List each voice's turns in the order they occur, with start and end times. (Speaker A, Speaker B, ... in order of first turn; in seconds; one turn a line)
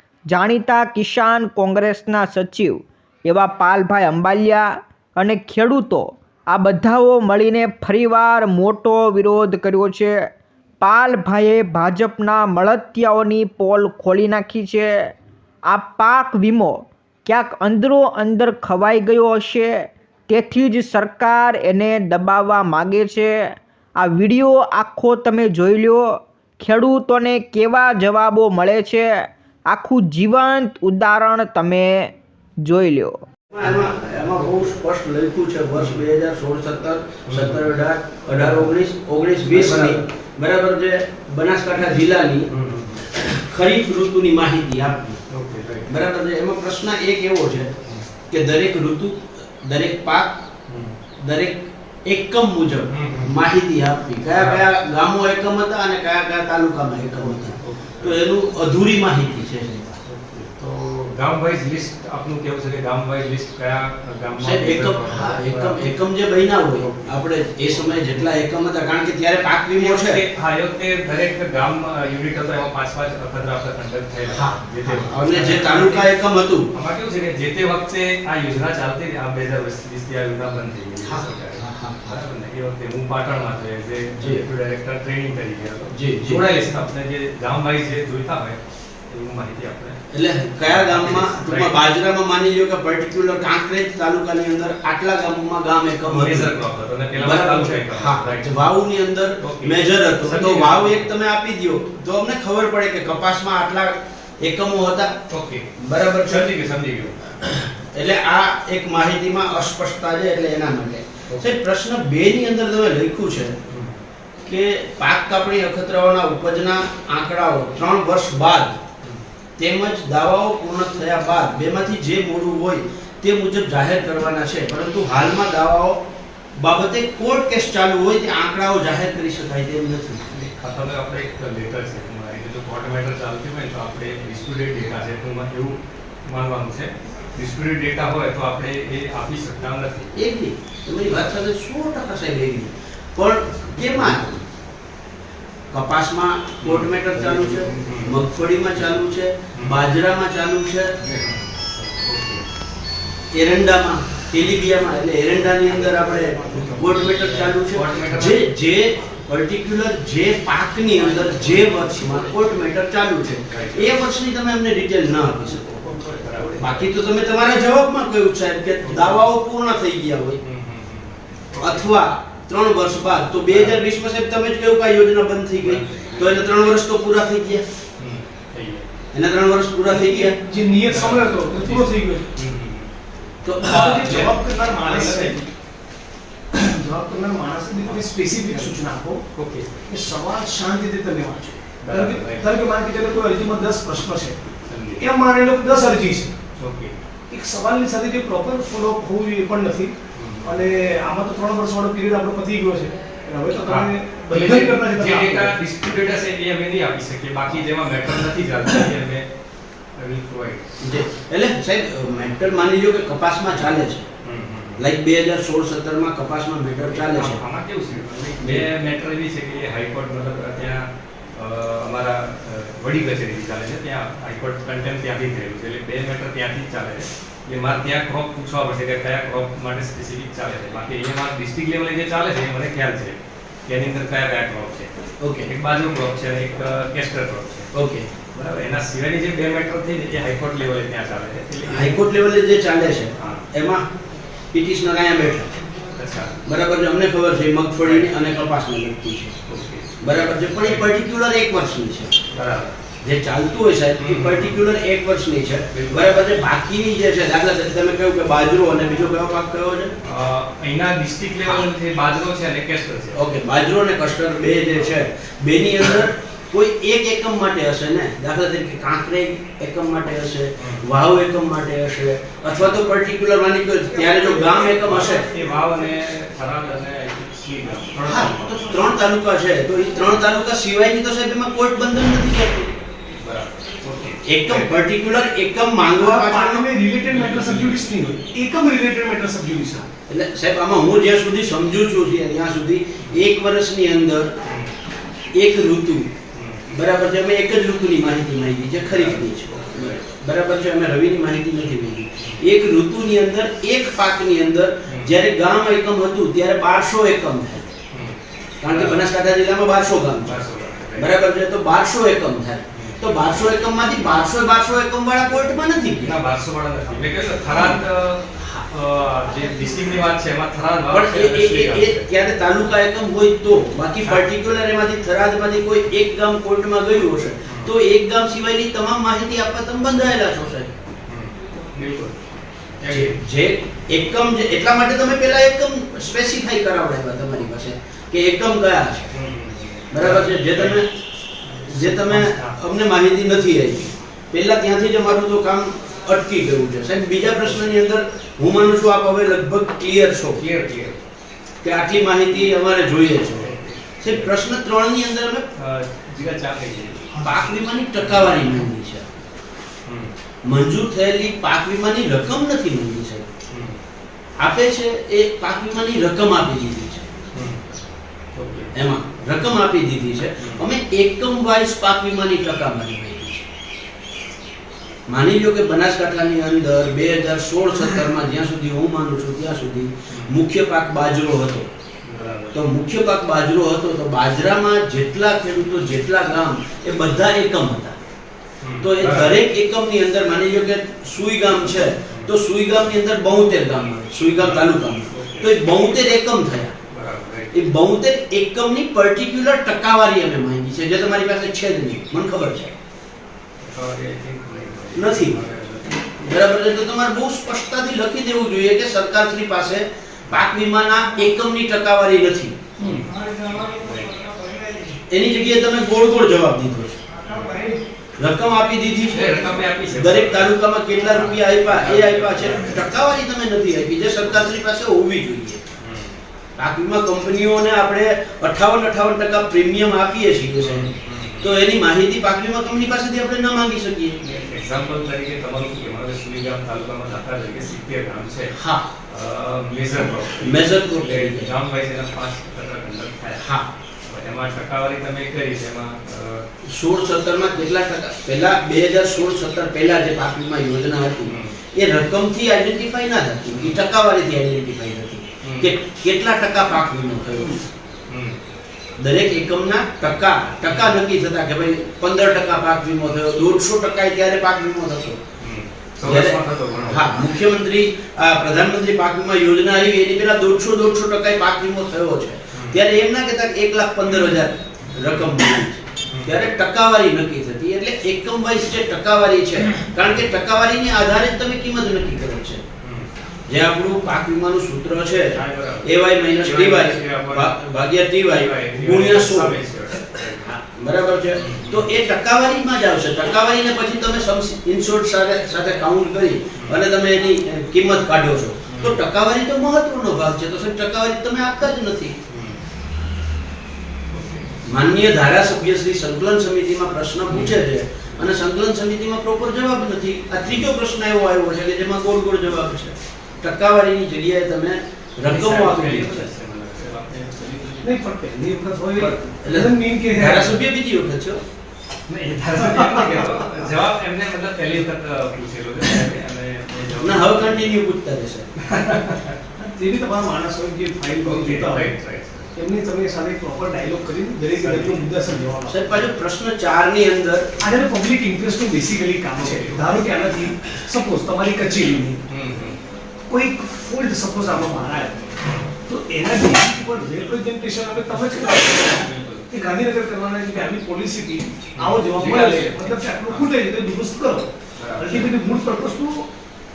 Speaker A: 0.3-10.2
Speaker A: 10.8-15.1
Speaker A: 15.7-33.2
Speaker B: 33.5-42.5
Speaker C: 35.8-36.0
Speaker C: 37.3-37.7
Speaker C: 38.3-38.7
Speaker C: 39.5-40.0
Speaker C: 42.5-43.1
Speaker B: 43.1-45.2
Speaker C: 45.3-46.0
Speaker B: 45.9-47.7
Speaker B: 48.3-50.4
Speaker C: 50.7-51.0
Speaker B: 51.2-60.0
Speaker C: 52.9-53.4
Speaker C: 54.3-54.7
Speaker C: 57.6-58.2
Speaker C: 60.1-65.8
Speaker B: 64.4-70.2
Speaker C: 66.8-68.3
Speaker C: 69.8-76.1
Speaker B: 74.3-76.7
Speaker C: 76.7-88.6
Speaker B: 81.0-82.2
Speaker B: 85.9-86.5
Speaker C: 89.1-90.0
Speaker B: 90.1-96.5
Speaker C: 90.6-91.7
Speaker C: 96.1-98.6
Speaker B: 97.2-105.2
Speaker C: 99.4-101.1
Speaker C: 105.3-105.7
Speaker B: 105.8-106.5
Speaker C: 106.2-107.2
Speaker B: 107.3-113.6
Speaker C: 113.7-114.0
Speaker B: 114.4-118.8
Speaker B: 119.6-126.0
Speaker B: 126.6-130.3
Speaker C: 130.3-140.1
Speaker B: 140.2-144.2
Speaker C: 143.7-144.4
Speaker B: 145.7-151.0
Speaker C: 146.6-148.2
Speaker C: 151.0-152.5
Speaker B: 153.3-165.8
Speaker C: 155.9-158.5
Speaker C: 161.0-162.4
Speaker C: 163.3-164.0
Speaker C: 165.8-166.9
Speaker B: 166.6-170.4
Speaker C: 168.8-169.2
Speaker C: 170.4-171.9
Speaker B: 171.6-177.7
Speaker C: 173.5-173.8
Speaker C: 175.6-176.5
Speaker C: 178.0-178.8
Speaker B: 179.1-180.4
Speaker D: 179.9-182.3
Speaker C: 180.8-182.9
Speaker B: 183.4-184.3
Speaker C: 183.6-185.4
Speaker D: 183.6-185.5
Speaker D: 186.5-189.2
Speaker C: 187.8-188.8
Speaker C: 189.3-189.8
Speaker D: 189.9-196.4
Speaker C: 191.8-192.5
Speaker C: 194.6-195.0
Speaker C: 196.6-196.9
Speaker D: 197.3-199.9
Speaker C: 200.1-200.7
Speaker D: 200.4-205.7
Speaker C: 203.7-209.2
Speaker C: 210.0-210.8
Speaker B: 210.8-214.1
Speaker C: 214.2-214.8
Speaker B: 214.8-217.4
Speaker C: 216.9-234.9
Speaker B: 218.4-218.7
Speaker B: 235.2-235.5
Speaker C: 235.4-237.7
Speaker B: 237.7-238.1
Speaker C: 238.3-242.0
Speaker B: 241.7-243.9
Speaker C: 243.2-243.5
Speaker B: 244.5-245.6
Speaker C: 246.0-246.4
Speaker B: 246.5-249.4
Speaker C: 247.8-248.1
Speaker C: 249.5-250.9
Speaker B: 250.0-252.2
Speaker C: 252.3-252.8
Speaker B: 253.0-259.9
Speaker C: 254.0-254.6
Speaker C: 255.7-256.2
Speaker C: 260.0-263.2
Speaker B: 263.1-275.3
Speaker C: 270.6-270.9
Speaker C: 274.6-278.9
Speaker B: 278.0-282.7
Speaker C: 283.2-284.7
Speaker B: 284.2-286.7
Speaker D: 286.0-289.9
Speaker C: 287.1-287.9
Speaker B: 290.1-294.3
Speaker C: 294.4-294.7
Speaker B: 295.3-296.1
Speaker C: 296.3-296.7
Speaker B: 296.7-307.7
Speaker C: 298.8-300.0
Speaker C: 304.9-305.1
Speaker C: 307.9-308.2
Speaker B: 308.6-310.4
Speaker C: 308.7-309.0
Speaker C: 310.2-311.1
Speaker B: 311.0-316.2
Speaker C: 312.7-313.0
Speaker C: 316.1-322.1
Speaker B: 317.5-317.8
Speaker B: 320.9-330.8
Speaker C: 327.5-327.7
Speaker C: 331.1-332.2
Speaker C: 332.8-333.2
Speaker B: 332.9-339.1
Speaker C: 339.1-340.8
Speaker B: 339.9-340.9
Speaker C: 341.4-342.6
Speaker B: 341.7-350.4
Speaker C: 350.4-351.0
Speaker B: 351.6-355.4
Speaker C: 353.3-354.3
Speaker C: 355.6-357.3
Speaker B: 357.2-359.1
Speaker C: 358.0-358.4
Speaker C: 359.9-360.1
Speaker B: 360.4-363.3
Speaker C: 363.5-363.8
Speaker B: 364.4-367.1
Speaker C: 367.3-367.8
Speaker C: 368.3-368.7
Speaker B: 368.7-373.5
Speaker C: 370.4-370.7
Speaker B: 375.1-381.7
Speaker C: 380.1-380.4
Speaker C: 382.1-382.6
Speaker B: 382.5-388.0
Speaker C: 388.6-389.4
Speaker B: 388.8-396.8
Speaker C: 394.4-395.5
Speaker C: 396.9-397.6
Speaker B: 397.5-402.8
Speaker C: 403.6-406.1
Speaker B: 404.9-405.4
Speaker B: 406.2-412.6
Speaker C: 412.8-414.3
Speaker B: 415.1-417.0
Speaker D: 417.4-417.8
Speaker B: 418.2-425.6
Speaker C: 419.1-422.9
Speaker C: 425.8-426.2
Speaker B: 426.6-434.2
Speaker C: 430.6-431.5
Speaker C: 434.2-438.6
Speaker B: 438.5-438.9
Speaker C: 439.1-443.5
Speaker B: 440.4-441.5
Speaker B: 443.4-443.7
Speaker C: 444.1-446.4
Speaker B: 446.6-457.6
Speaker C: 451.3-451.5
Speaker C: 453.5-453.8
Speaker C: 455.4-455.7
Speaker C: 458.1-458.4
Speaker B: 459.0-465.2
Speaker C: 465.4-467.3
Speaker B: 466.0-482.6
Speaker C: 472.5-472.8
Speaker C: 476.1-476.5
Speaker C: 482.8-483.1
Speaker B: 483.5-489.6
Speaker C: 485.3-487.7
Speaker C: 488.2-490.6
Speaker B: 490.6-502.2
Speaker C: 491.4-491.9
Speaker C: 496.6-496.8
Speaker C: 498.7-499.0
Speaker C: 502.3-502.6
Speaker C: 504.1-504.6
Speaker B: 504.6-516.3
Speaker C: 507.3-507.6
Speaker C: 515.2-518.0
Speaker D: 517.8-520.7
Speaker B: 519.0-521.4
Speaker C: 522.1-527.8
Speaker D: 522.6-523.1
Speaker B: 527.0-528.5
Speaker C: 528.6-529.4
Speaker D: 529.6-531.9
Speaker C: 531.2-532.5
Speaker D: 532.5-535.9
Speaker C: 534.6-535.5
Speaker B: 535.7-537.5
Speaker D: 537.6-542.2
Speaker C: 539.4-539.9
Speaker C: 542.3-542.8
Speaker D: 543.3-545.3
Speaker D: 545.9-554.5
Speaker C: 548.1-549.5
Speaker C: 551.8-553.5
Speaker C: 554.8-555.3
Speaker D: 555.0-556.3